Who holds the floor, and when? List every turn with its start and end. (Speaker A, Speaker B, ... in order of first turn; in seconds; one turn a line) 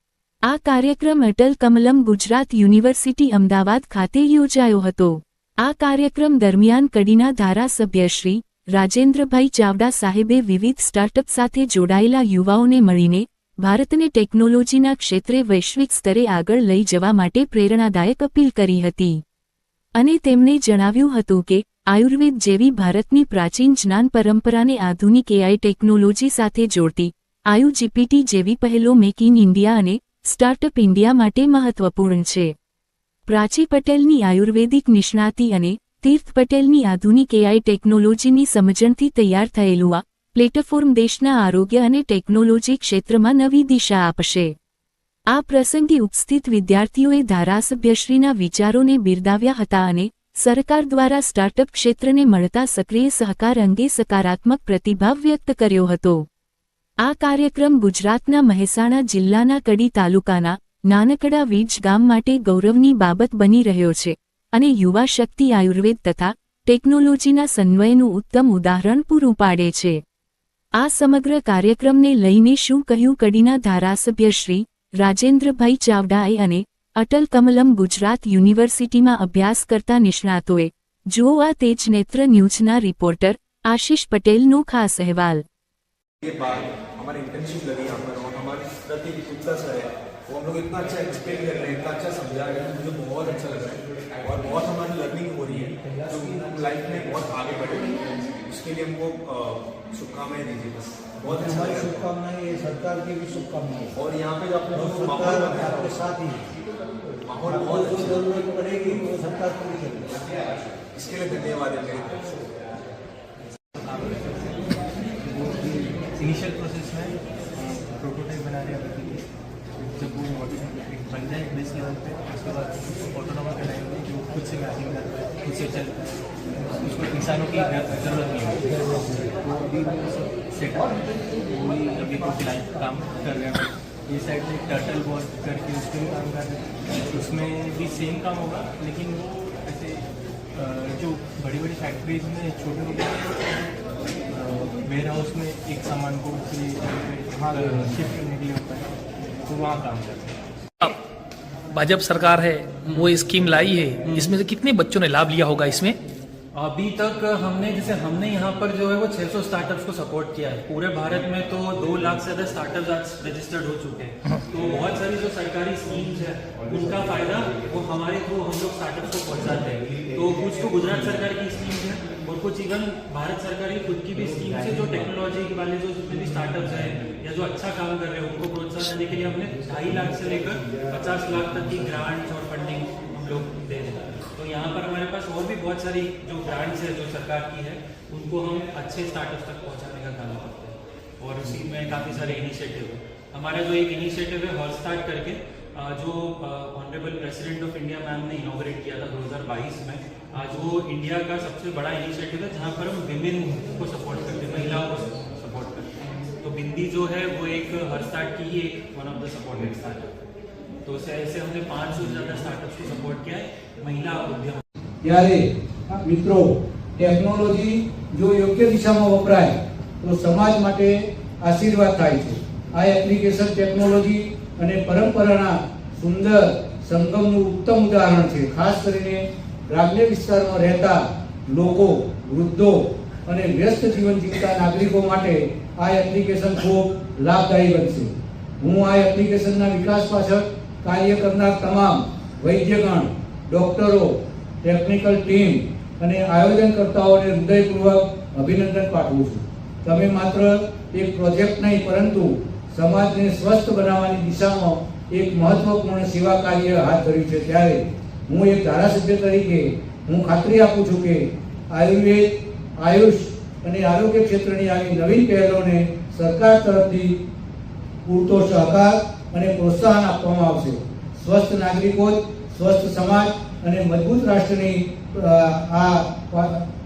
Speaker A: 0.5-19.2
Speaker A: 19.9-32.5
Speaker A: 33.3-44.5
Speaker A: 45.3-56.2
Speaker A: 57.0-70.0
Speaker A: 70.8-85.4
Speaker B: 86.2-102.1
Speaker C: 101.2-103.9
Speaker B: 103.9-106.0
Speaker C: 104.7-106.4
Speaker B: 107.2-108.3
Speaker C: 107.5-110.1
Speaker B: 110.9-112.3
Speaker D: 113.7-143.6
Speaker D: 144.3-148.9
Speaker D: 149.4-150.4
Speaker E: 151.7-156.0
Speaker F: 154.1-154.4
Speaker F: 156.5-205.9
Speaker F: 206.4-210.2
Speaker F: 210.8-214.6
Speaker C: 215.0-267.2
Speaker C: 268.0-276.6